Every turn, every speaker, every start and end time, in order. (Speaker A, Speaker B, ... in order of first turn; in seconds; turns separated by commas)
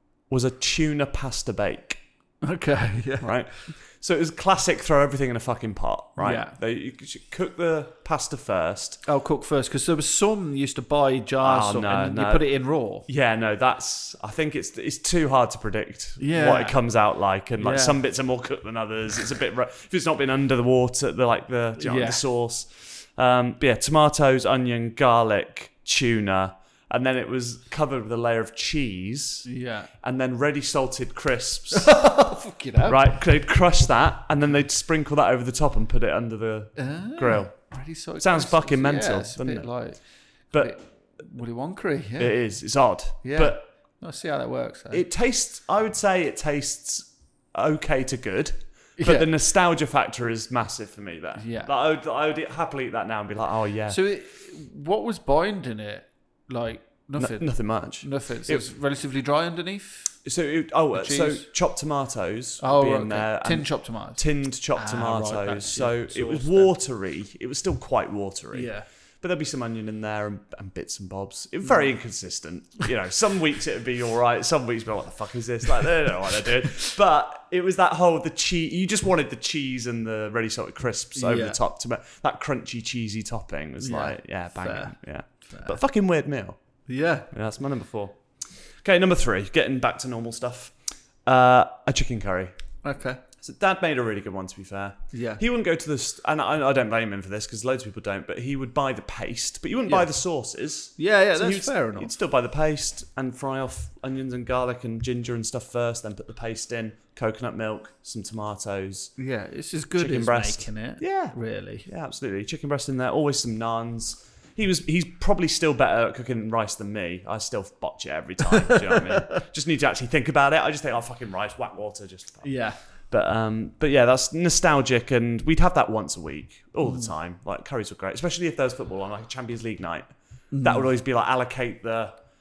Speaker A: 0.3-2.0, Speaker B: 2.4-3.5, Speaker A: 3.2-9.0, Speaker B: 6.2-6.5, Speaker B: 9.0-13.1, Speaker A: 11.4-12.5, Speaker A: 13.1-29.5, Speaker B: 16.2-16.8, Speaker B: 17.6-18.0, Speaker B: 21.8-22.2, Speaker B: 29.4-29.9, Speaker A: 30.0-32.0, Speaker B: 31.7-33.2, Speaker A: 32.9-40.8, Speaker B: 36.8-42.5, Speaker A: 42.2-43.6, Speaker B: 43.2-45.0, Speaker A: 44.9-54.0, Speaker B: 49.0-49.3, Speaker B: 51.4-51.7, Speaker B: 53.9-60.2, Speaker A: 57.2-58.6, Speaker A: 60.2-86.6, Speaker B: 60.9-61.5, Speaker B: 62.6-66.7, Speaker B: 68.5-68.8, Speaker B: 81.1-81.6, Speaker B: 83.8-85.8, Speaker B: 86.9-87.3, Speaker A: 87.3-92.5, Speaker B: 92.8-93.2, Speaker A: 93.4-109.1, Speaker B: 95.1-95.4, Speaker B: 101.0-102.1, Speaker B: 109.2-111.9, Speaker A: 110.0-132.1, Speaker B: 118.6-119.3, Speaker B: 122.4-122.8, Speaker B: 126.8-127.1, Speaker B: 130.5-130.9